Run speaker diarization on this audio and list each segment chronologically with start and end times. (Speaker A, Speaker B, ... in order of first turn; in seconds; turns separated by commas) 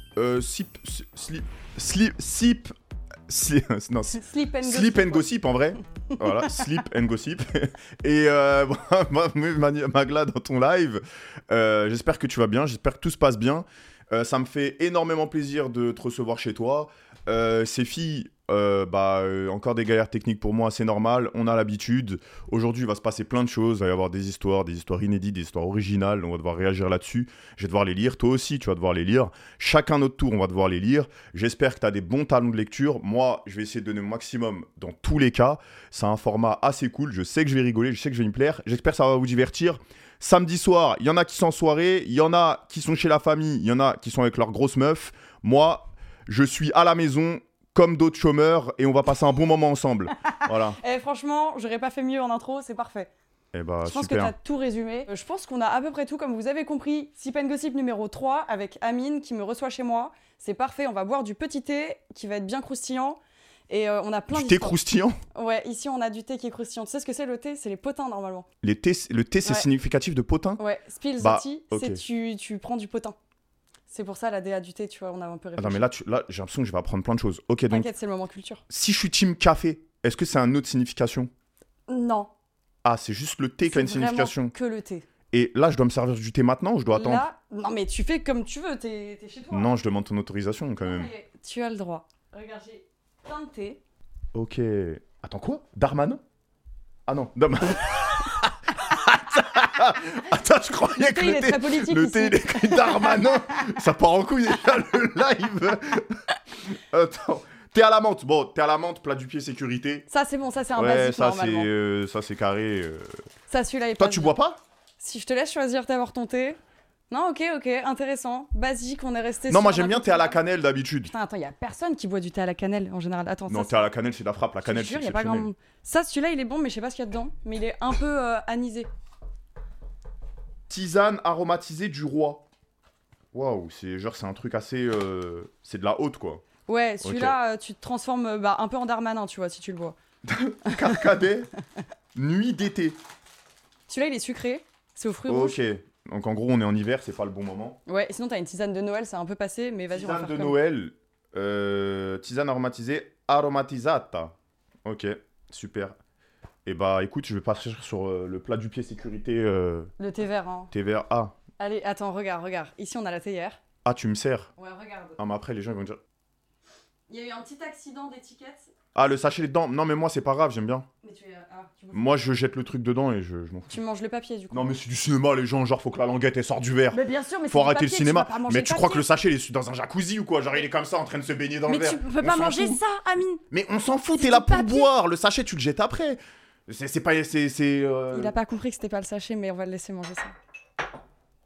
Speaker A: 0.1-2.7, Speaker A: 3.3-50.8, Speaker B: 4.1-5.3, Speaker B: 6.2-6.7, Speaker B: 50.4-53.1, Speaker A: 53.5-54.3, Speaker B: 53.8-64.8, Speaker A: 64.3-65.2, Speaker B: 65.3-68.5, Speaker A: 68.6-70.6, Speaker B: 70.6-73.2, Speaker A: 71.2-72.0, Speaker B: 73.9-75.8, Speaker A: 75.6-77.9, Speaker B: 77.7-78.6, Speaker A: 78.7-81.3, Speaker B: 81.9-82.3, Speaker A: 82.8-84.5, Speaker B: 83.6-85.0, Speaker A: 85.3-87.2, Speaker B: 86.9-89.7, Speaker A: 89.5-91.1, Speaker B: 90.8-93.8, Speaker A: 94.3-96.2, Speaker A: 97.1-110.0, Speaker B: 100.9-103.3, Speaker B: 110.1-111.7, Speaker A: 110.7-113.2, Speaker B: 113.5-114.4, Speaker A: 114.0-114.6, Speaker B: 115.0-120.4, Speaker A: 119.5-121.1, Speaker B: 121.1-123.9, Speaker A: 123.5-125.5, Speaker B: 124.6-128.9, Speaker A: 130.7-132.4, Speaker A: 133.3-136.4, Speaker B: 136.7-140.0, Speaker A: 137.0-137.4, Speaker A: 140.2-141.5, Speaker B: 140.7-141.1, Speaker A: 142.1-143.0, Speaker B: 143.9-145.6, Speaker A: 145.3-147.8, Speaker B: 147.8-150.6, Speaker A: 149.9-155.9, Speaker A: 156.7-159.9, Speaker B: 160.0-160.7, Speaker A: 160.7-161.3, Speaker B: 161.6-163.6, Speaker A: 163.8-164.5, Speaker B: 164.6-165.2, Speaker A: 165.2-166.0, Speaker B: 167.1-168.7, Speaker A: 168.9-170.9, Speaker B: 171.0-172.1, Speaker A: 171.9-173.8, Speaker B: 173.7-174.7, Speaker A: 174.5-182.8, Speaker B: 176.9-179.1, Speaker B: 181.7-183.4, Speaker A: 183.5-188.3, Speaker B: 184.1-184.9, Speaker B: 188.1-190.3